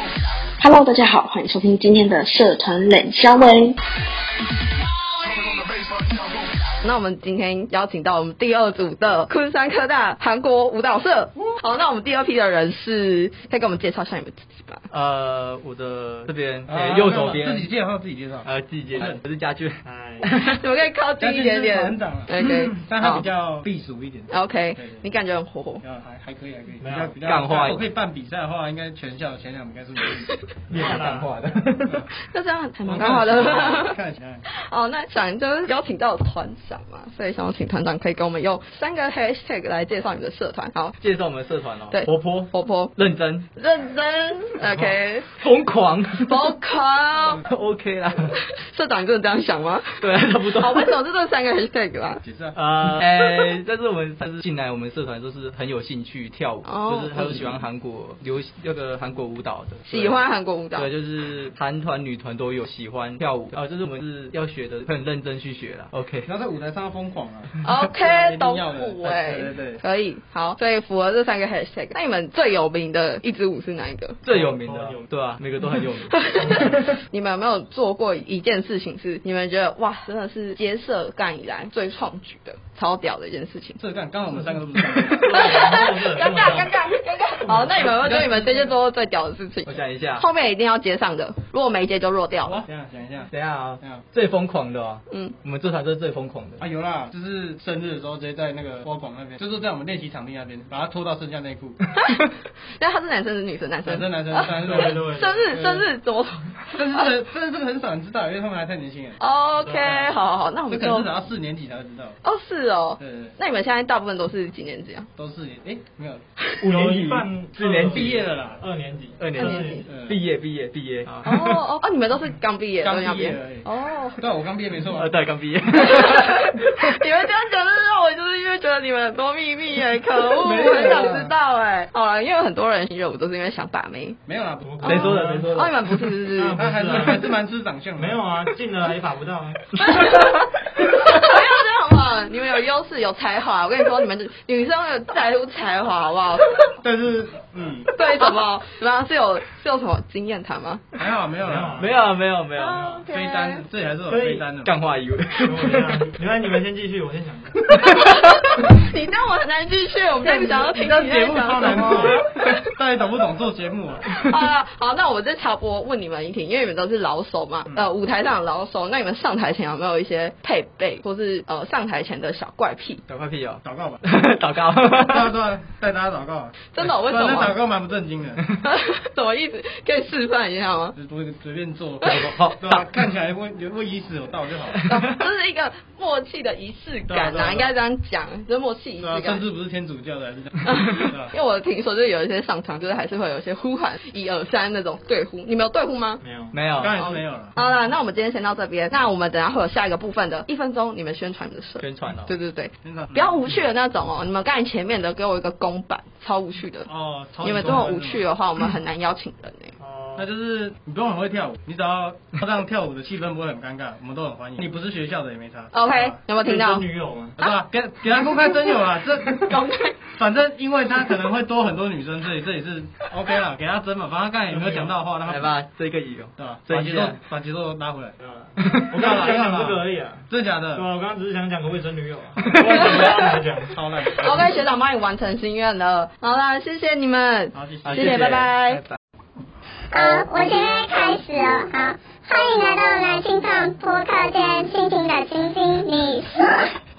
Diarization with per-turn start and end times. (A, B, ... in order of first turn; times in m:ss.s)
0:00.6-0:03.8 A
0:05.6-0:06.4 A
0:06.8-0:14.8 B
0:14.9-0:17.7 C
0:16.7-0:19.2 D
0:18.4-0:20.6 C
0:19.8-0:20.2 E
0:20.4-0:23.2 B
0:21.2-0:25.1 D
0:24.3-0:25.8 B
0:25.8-0:30.3 D
0:26.8-0:27.2 E
0:27.2-0:27.8 C
0:30.7-0:31.3 E
0:30.7-0:32.0 C
0:32.3-0:34.0 B
0:32.8-0:34.4 D
0:34.7-0:41.0 B
0:41.0-0:43.5 C
0:41.9-0:42.9 B
0:43.6-0:45.3 B
0:44.7-0:46.5 C
0:46.2-0:47.4 B
0:47.4-0:48.3 C
0:48.6-0:50.0 B
0:50.0-0:50.9 C
0:50.6-0:52.2 B
0:52.2-0:52.6 D
0:52.5-1:00.2 C
0:56.6-0:57.5 B
0:59.9-1:00.9 B
1:00.8-1:06.3 C
1:06.2-1:09.8 D
1:07.6-1:14.2 B
1:14.2-1:16.2 C
1:14.3-1:15.2 E
1:16.1-1:23.8 B
1:16.3-1:16.9 E
1:23.8-1:25.3 D
1:25.1-1:32.6 B
1:25.2-1:26.8 E
1:27.4-1:28.1 E
1:28.0-1:28.7 D
1:29.6-1:30.2 C
1:32.4-1:34.0 D
1:33.3-1:36.6 C
1:35.1-1:35.4 B
1:36.6-1:41.8 D
1:42.7-1:47.1 B
1:43.8-1:45.8 D
1:44.6-1:45.4 E
1:46.7-1:50.1 D
1:49.2-1:51.1 B
1:50.7-1:52.2 D
1:52.2-1:55.1 B
1:53.0-1:53.3 D
1:55.2-1:56.2 D
1:56.6-1:58.2 C
1:56.6-1:59.9 E
1:57.6-1:58.6 D
1:59.2-2:01.6 C
1:59.4-1:59.9 B
1:59.8-2:00.2 D
2:01.2-2:04.2 B
2:02.8-2:05.1 D
2:04.9-2:06.9 C
2:05.8-2:14.2 B
2:10.4-2:11.3 D
2:14.3-2:15.1 D
2:14.6-2:15.6 E
2:14.8-2:16.6 B
2:14.8-2:15.8 C
2:16.3-2:17.3 E
2:16.5-2:18.3 D
2:18.0-2:19.6 E
2:19.8-2:26.7 B
2:26.8-2:27.9 D
2:27.9-2:30.8 B
2:31.0-2:31.9 D
2:31.4-2:31.9 E
2:31.8-2:32.8 C
2:32.6-2:33.6 B
2:32.7-2:33.0 E
2:33.1-2:34.7 D
2:34.0-2:34.4 E
2:34.6-2:36.0 C
2:35.4-2:37.8 E
2:37.8-2:42.6 B
2:37.9-2:38.1 C
2:40.2-2:44.1 D
2:41.4-2:42.2 E
2:44.2-2:53.0 B
2:53.1-2:55.3 C
2:53.6-2:54.0 D
2:55.0-2:58.4 D
2:56.7-2:57.6 B
2:58.6-3:01.0 B
3:00.9-3:04.8 D
3:02.0-3:02.9 C
3:04.8-3:09.4 B
3:07.1-3:07.7 D
3:09.0-3:11.3 D
3:10.6-3:16.2 B
3:16.2-3:16.6 E
3:16.5-3:17.0 C
3:16.7-3:17.6 D
3:16.9-3:26.9 B
3:21.8-3:22.3 C
3:22.8-3:23.4 D
3:26.8-3:28.3 D
3:27.4-3:29.7 B
3:29.8-3:30.3 E
3:30.2-3:36.2 D
3:35.7-3:36.8 B
3:36.3-3:37.4 E
3:37.4-3:39.5 D
3:38.1-3:38.8 B
3:39.3-3:40.0 B
3:40.1-3:45.5 D
3:44.5-3:45.0 E
3:45.2-3:47.2 C
3:46.4-3:48.1 D
3:48.2-3:53.8 E
3:48.9-3:50.9 D
3:52.5-3:53.1 C
3:52.5-3:54.6 D
3:54.1-3:58.8 B
3:57.5-3:58.4 D
3:57.8-3:59.0 C
3:59.9-4:06.7 F